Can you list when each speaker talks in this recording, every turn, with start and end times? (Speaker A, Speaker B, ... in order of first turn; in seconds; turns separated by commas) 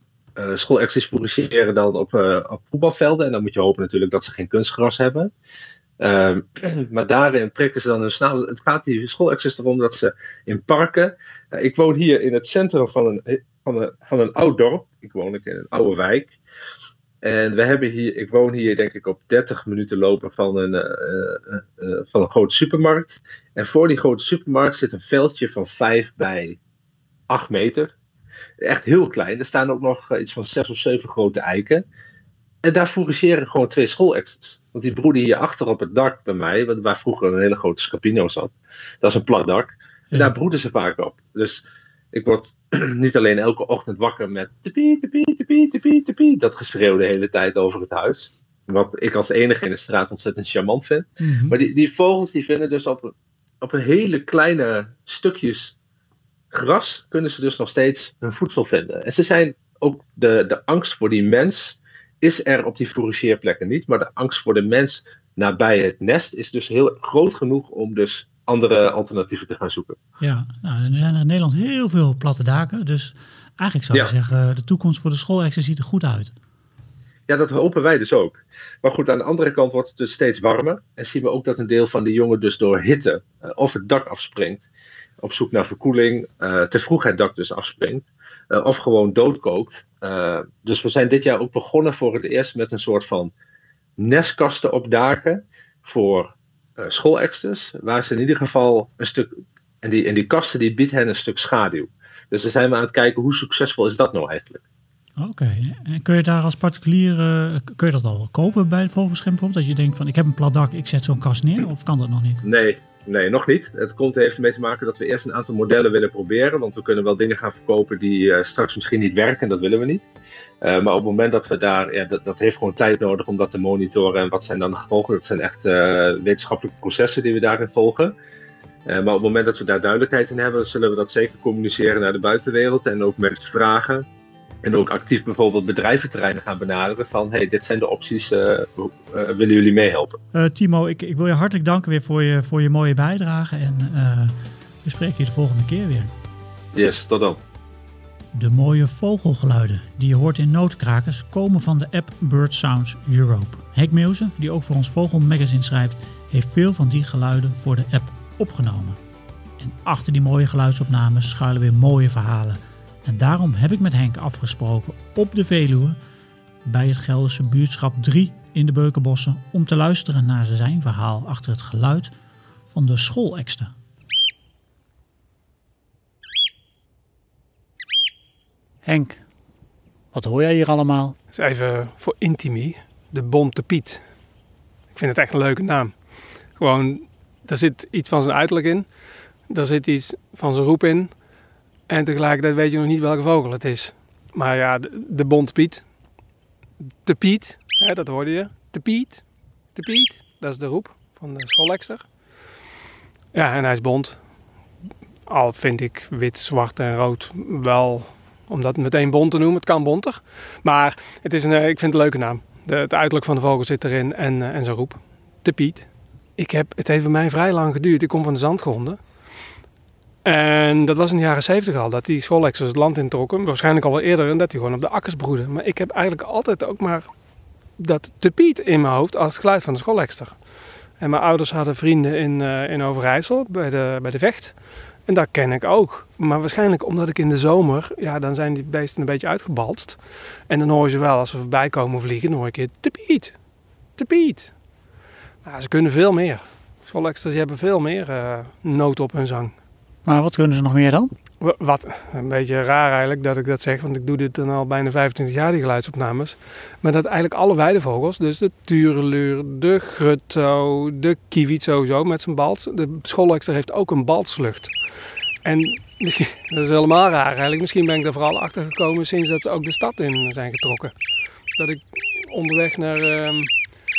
Speaker A: 0.4-5.3, Speaker A: 6.0-16.3, Speaker A: 17.2-26.6, Speaker A: 27.3-27.9, Speaker A: 28.6-31.8, Speaker A: 32.6-55.7, Speaker B: 51.2-51.5, Speaker A: 56.5-70.0, Speaker B: 70.2-76.3, Speaker A: 77.3-84.7, Speaker A: 85.2-93.3, Speaker A: 94.0-99.3, Speaker A: 99.8-104.6, Speaker B: 105.2-112.4, Speaker A: 112.4-120.0, Speaker A: 120.6-128.1, Speaker A: 128.8-134.1, Speaker A: 134.6-140.2, Speaker B: 140.3-146.1, Speaker A: 146.7-147.4, Speaker B: 148.3-159.0, Speaker B: 159.6-166.0, Speaker B: 166.6-172.1, Speaker B: 172.7-173.7, Speaker B: 178.8-179.2, Speaker B: 180.1-181.2, Speaker C: 181.3-184.0, Speaker C: 184.9-188.9, Speaker C: 189.5-191.2, Speaker C: 191.9-195.9, Speaker C: 197.0-202.1, Speaker C: 203.3-204.2, Speaker C: 205.2-219.1, Speaker C: 220.2-227.1, Speaker C: 227.8-230.4, Speaker C: 231.0-243.4, Speaker C: 243.9-244.5, Speaker C: 245.4-249.5, Speaker B: 250.0-251.1, Speaker C: 251.4-264.8, Speaker C: 265.4-270.9, Speaker C: 271.5-273.6